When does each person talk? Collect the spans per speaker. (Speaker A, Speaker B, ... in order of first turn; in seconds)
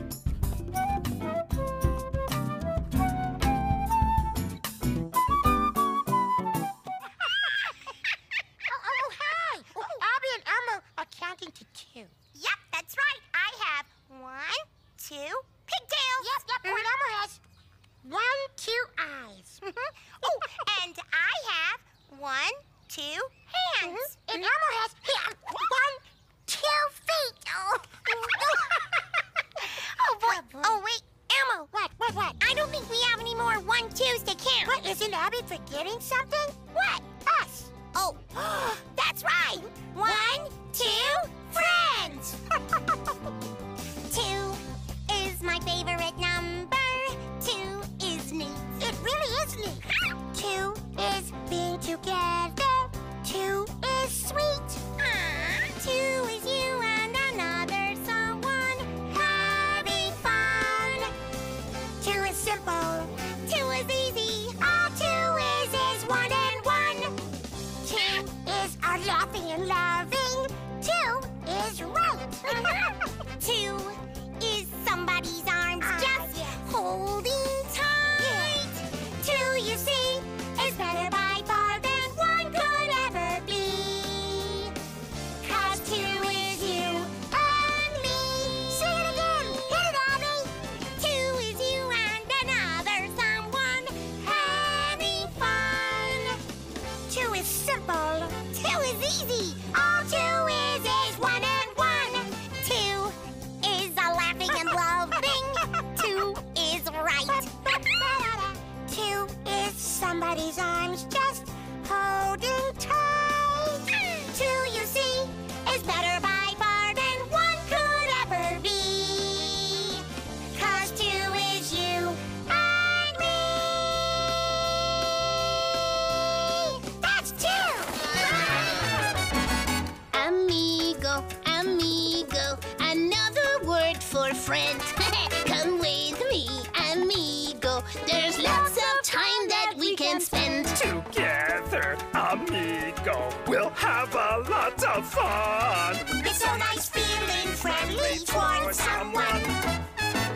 Speaker A: 8.8-9.9, 12.3-16.9, 20.2-24.3, 30.0-31.7, 32.4-34.8, 36.7-37.1, 37.8-42.4, 44.1-61.1, 62.0-67.2, 67.8-84.8, 85.4-96.4, 97.1-124.6, 126.1-128.8, 146.1-149.5
Speaker B: 9.2-12.1, 16.2-17.4, 18.0-19.6, 23.8-27.7, 30.4-30.8, 31.7-32.4, 34.6-37.7, 40.0-41.4, 107.6-108.2, 148.7-149.1
Speaker C: 130.1-140.9
Speaker D: 140.9-146.1